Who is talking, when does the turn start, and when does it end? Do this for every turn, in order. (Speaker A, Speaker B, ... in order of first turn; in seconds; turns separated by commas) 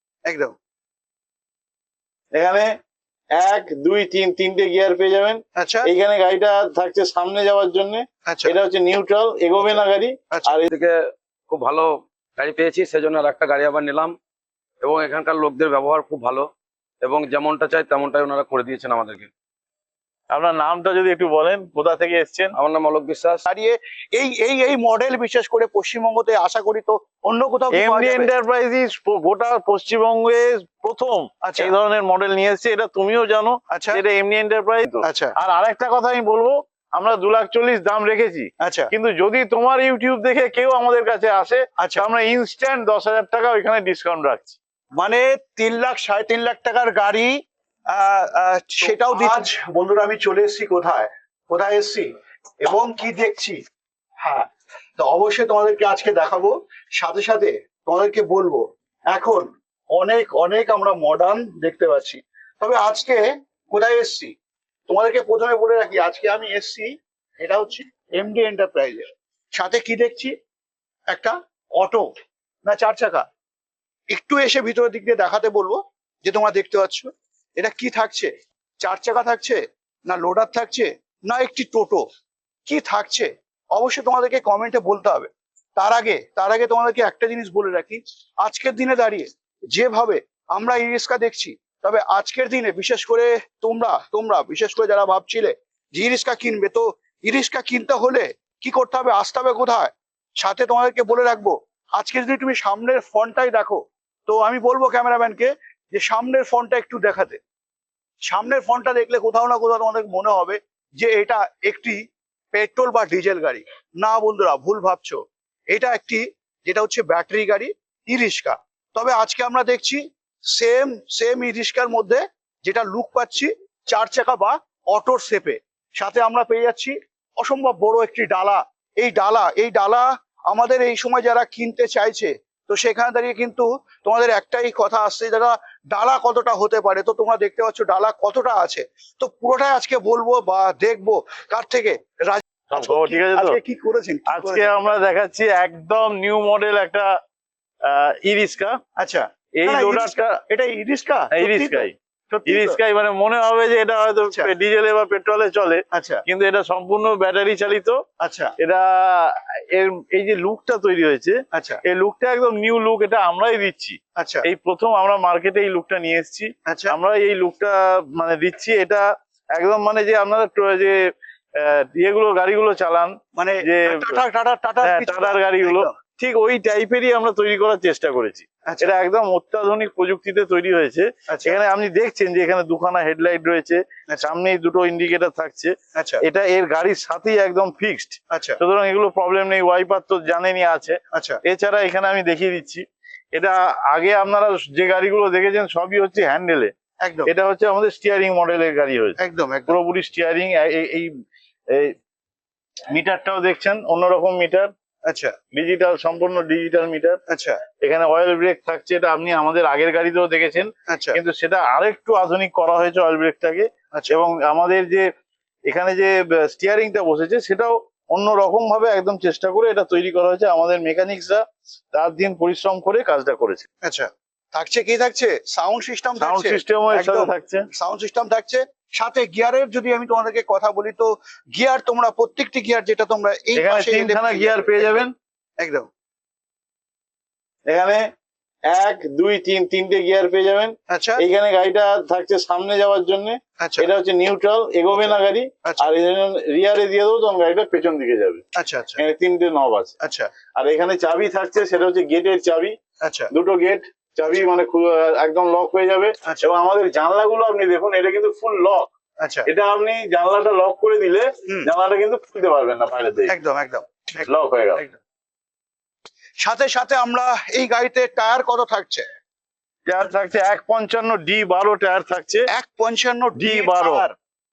Speaker A: 0.3-0.6, Speaker B: 2.4-2.7, Speaker B: 3.3-10.7, Speaker A: 5.6-5.9, Speaker A: 8.3-8.6, Speaker A: 9.6-10.6, Speaker C: 10.7-11.0, Speaker C: 11.5-14.2, Speaker C: 14.8-16.5, Speaker C: 17.0-19.3, Speaker B: 20.3-22.5, Speaker C: 22.6-23.4, Speaker A: 23.5-28.3, Speaker B: 27.7-44.6, Speaker A: 31.4-31.7, Speaker A: 33.7-34.0, Speaker A: 35.0-35.3, Speaker A: 38.6-38.9, Speaker A: 41.8-42.1, Speaker A: 45.0-47.4, Speaker A: 47.9-52.1, Speaker B: 48.9-49.3, Speaker A: 52.6-53.6, Speaker A: 54.2-64.3, Speaker A: 64.9-70.3, Speaker A: 71.1-72.1, Speaker A: 72.7-73.3, Speaker A: 74.1-78.3, Speaker A: 78.8-82.0, Speaker A: 82.7-107.4, Speaker A: 108.3-112.0, Speaker A: 112.5-144.7, Speaker B: 142.7-143.6, Speaker B: 144.3-147.1, Speaker B: 147.9-148.8, Speaker A: 149.0-152.8, Speaker B: 149.6-150.4, Speaker B: 151.3-151.9, Speaker B: 152.5-158.0, Speaker A: 155.9-156.2, Speaker A: 158.2-158.5, Speaker B: 158.6-171.0, Speaker A: 161.5-161.8, Speaker A: 164.2-164.4, Speaker A: 166.7-166.9, Speaker B: 171.6-174.2, Speaker A: 173.4-176.0, Speaker B: 174.8-196.7, Speaker A: 181.3-181.6, Speaker A: 185.9-186.2, Speaker A: 188.3-188.6, Speaker A: 191.1-191.4, Speaker A: 197.0-197.3, Speaker B: 197.3-199.2, Speaker A: 199.2-199.8, Speaker B: 199.7-201.1, Speaker B: 202.9-204.7, Speaker A: 205.1-205.3, Speaker B: 205.5-207.2, Speaker A: 207.3-207.6, Speaker B: 207.8-215.1, Speaker A: 210.9-211.2, Speaker B: 215.7-223.7, Speaker A: 223.8-235.0, Speaker B: 226.2-227.7, Speaker B: 233.6-235.1, Speaker A: 235.6-235.9, Speaker B: 237.7-238.1, Speaker B: 238.7-248.4, Speaker A: 240.9-241.2, Speaker A: 243.6-243.9, Speaker A: 244.9-245.9, Speaker A: 248.6-249.0, Speaker B: 249.0-249.9, Speaker A: 250.0-250.3, Speaker B: 250.6-252.8, Speaker A: 253.0-253.3, Speaker B: 253.3-258.9, Speaker A: 259.2-259.5, Speaker B: 259.5-263.3, Speaker A: 263.3-265.0, Speaker B: 264.3-264.8, Speaker A: 266.4-269.1, Speaker B: 269.9-272.5, Speaker A: 272.5-274.1, Speaker B: 273.4-274.1